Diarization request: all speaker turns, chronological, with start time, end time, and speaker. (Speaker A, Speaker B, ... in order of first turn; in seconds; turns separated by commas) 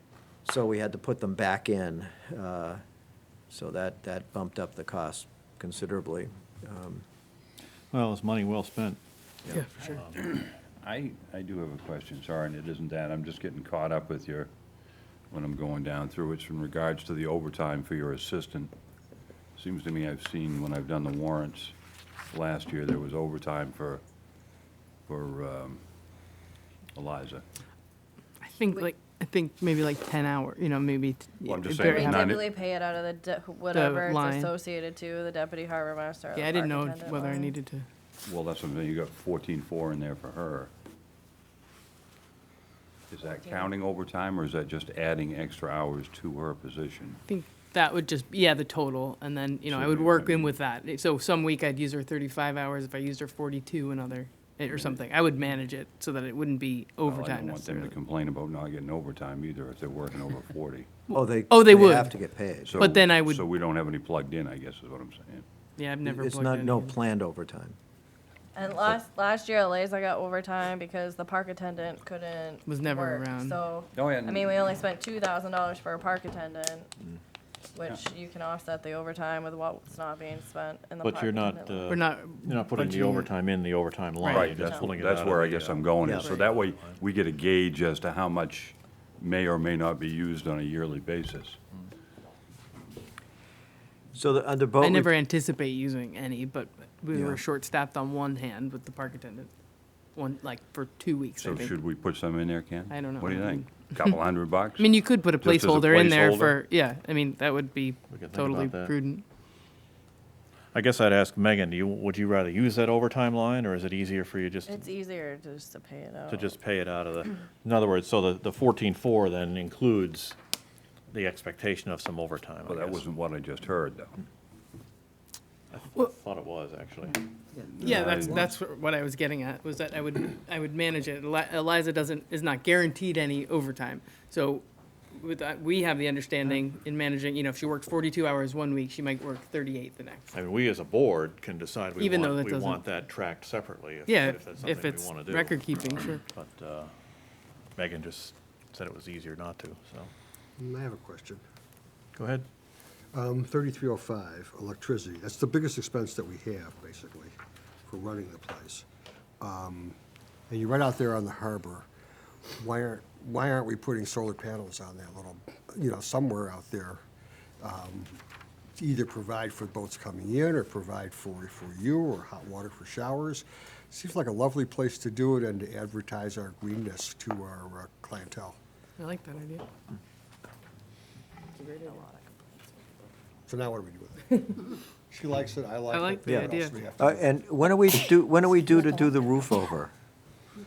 Speaker A: 0.4-2.8, Speaker A: 3.5-7.0, Speaker B: 7.9-10.4, Speaker C: 9.5-10.0, Speaker D: 10.3-14.5, Speaker D: 15.3-18.7, Speaker D: 19.6-21.7, Speaker D: 22.3-24.0, Speaker D: 25.1-25.8, Speaker D: 26.9-27.4, Speaker C: 28.4-32.4, Speaker D: 31.4-32.5, Speaker E: 31.7-37.5, Speaker C: 33.7-34.5, Speaker C: 36.3-37.9, Speaker D: 38.2-40.7, Speaker D: 43.1-47.2, Speaker E: 43.2-43.7, Speaker C: 47.3-58.0, Speaker D: 49.7-50.6, Speaker D: 57.0-60.9, Speaker C: 61.1-62.1, Speaker A: 61.1-62.9, Speaker D: 62.6-65.5, Speaker C: 62.8-63.5, Speaker C: 65.8-66.9, Speaker A: 66.0-67.8, Speaker E: 68.5-76.9, Speaker C: 72.7-73.6, Speaker D: 73.9-74.7, Speaker E: 77.7-81.9, Speaker B: 81.0-87.0, Speaker C: 81.9-83.2, Speaker D: 84.3-91.6, Speaker E: 84.5-84.8, Speaker A: 86.0-86.3, Speaker A: 94.1-95.1, Speaker C: 94.8-99.5, Speaker A: 97.1-97.4, Speaker C: 100.1-101.8, Speaker D: 101.4-106.6, Speaker C: 102.9-104.2, Speaker C: 104.8-109.2, Speaker B: 108.1-108.9, Speaker B: 110.7-114.9, Speaker E: 114.7-116.5, Speaker B: 116.3-120.4, Speaker B: 121.1-123.0, Speaker D: 122.7-124.2, Speaker B: 125.7-127.3, Speaker D: 127.7-128.4, Speaker C: 127.8-140.3, Speaker F: 127.8-128.5, Speaker B: 140.3-146.9, Speaker C: 142.0-142.8, Speaker C: 144.1-146.2, Speaker B: 147.8-150.1, Speaker F: 150.6-151.4, Speaker B: 152.2-152.5, Speaker F: 153.1-157.3, Speaker F: 157.9-158.8, Speaker F: 159.4-160.0, Speaker F: 160.5-161.9, Speaker F: 162.6-167.0, Speaker F: 167.6-168.1, Speaker F: 168.8-178.6, Speaker C: 179.0-179.7, Speaker C: 181.6-182.5, Speaker F: 183.5-187.4, Speaker C: 185.9-186.8, Speaker A: 186.2-189.9